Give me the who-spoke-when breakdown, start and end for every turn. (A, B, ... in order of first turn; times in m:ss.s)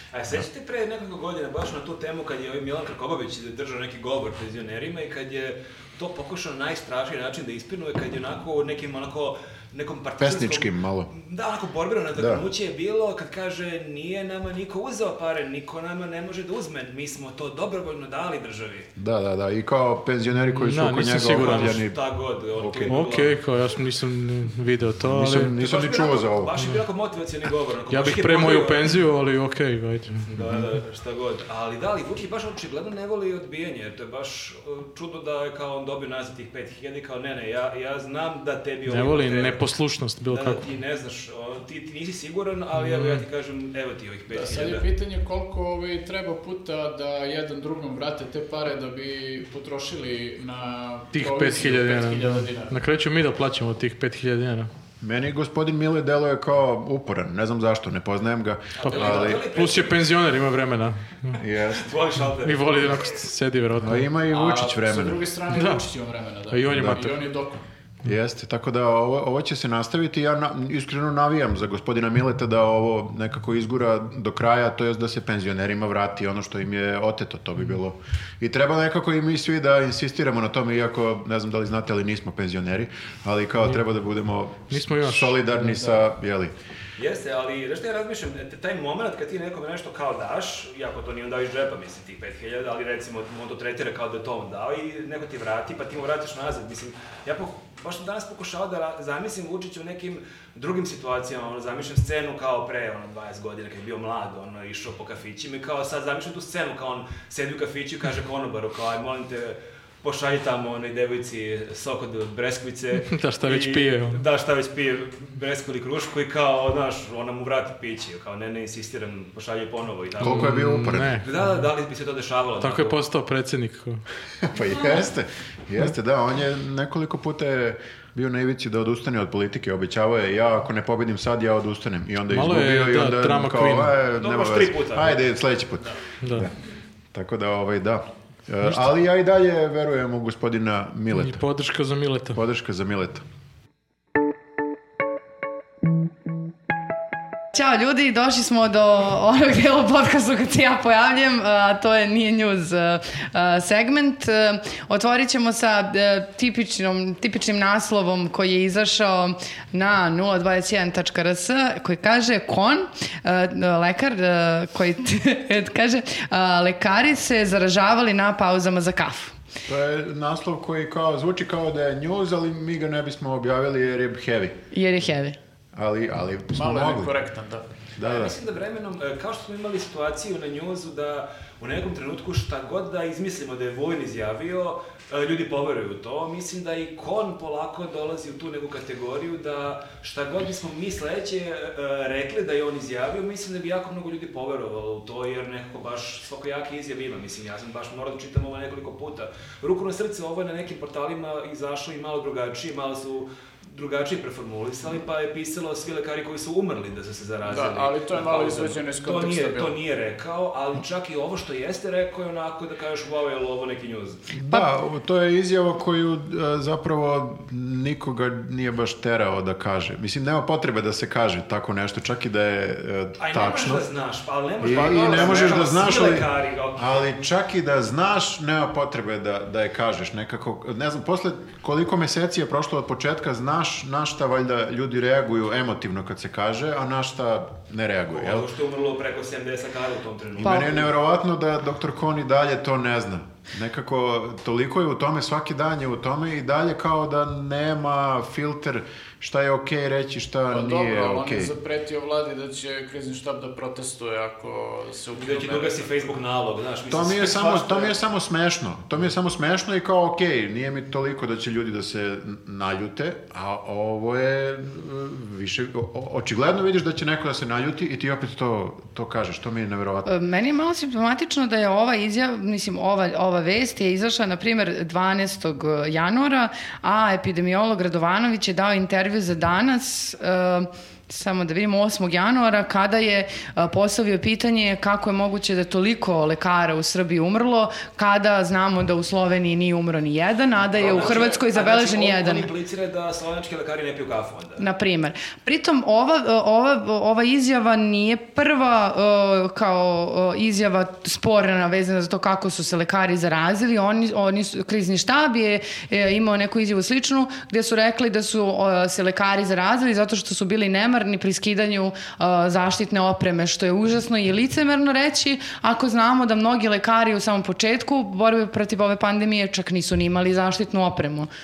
0:00.1-0:18.9 A
0:10.2-0:11.1 B
0:12.2-0:12.4 B
0:19.0-0:22.0 B
0:20.5-0:21.8 C
0:21.3-0:23.4 A
0:22.6-0:23.0 B
0:22.9-0:25.6 C
0:25.0-0:26.5 B
0:25.5-0:29.0 A
0:27.9-0:30.3 C
0:30.3-0:39.6 A
0:30.4-0:30.6 B
0:38.9-0:40.6 C
0:40.3-0:44.9 A
0:42.7-0:43.2 C
0:44.3-0:52.8 D
0:51.1-0:54.7 C
0:55.0-0:59.5 B
0:58.8-1:00.0 A
0:58.8-1:01.4 C
1:01.4-1:01.9 B
1:01.8-1:02.8 A
1:02.4-1:04.1 C
1:03.8-1:05.2 B
1:04.3-1:07.6 D
1:05.5-1:05.8 C
1:06.5-1:07.2 C
1:06.7-1:07.0 B
1:08.0-1:26.5 B
1:24.7-1:25.8 C
1:27.0-2:00.6 A
1:53.0-1:54.2 C
2:00.2-2:01.1 B
2:00.2-2:01.6 C
2:01.2-2:03.0 A
2:02.6-2:04.0 C
2:04.4-2:16.5 B
2:12.3-2:14.0 C
2:14.2-2:15.2 A
2:16.2-2:16.5 C
2:17.1-2:21.4 B
2:21.1-2:22.4 C
2:22.3-2:23.2 B
2:27.5-2:49.4 E
2:49.7-2:54.6 B
2:54.7-2:55.4 E
2:55.7-2:57.1 B
2:56.5-2:57.6 D
2:58.0-2:58.4 B
2:58.0-3:34.3 A
3:27.5-3:29.8 D
3:34.3-3:43.9 B
3:43.2-3:47.1 A
3:44.6-3:58.5 B
3:44.8-3:45.6 D
3:58.1-4:00.9 A
4:00.4-4:11.5 B
4:10.5-4:16.0 D
4:15.2-4:18.0 A
4:16.9-4:30.1 B
4:30.1-4:52.5 E
4:50.7-4:54.6 A
4:54.6-5:21.3 E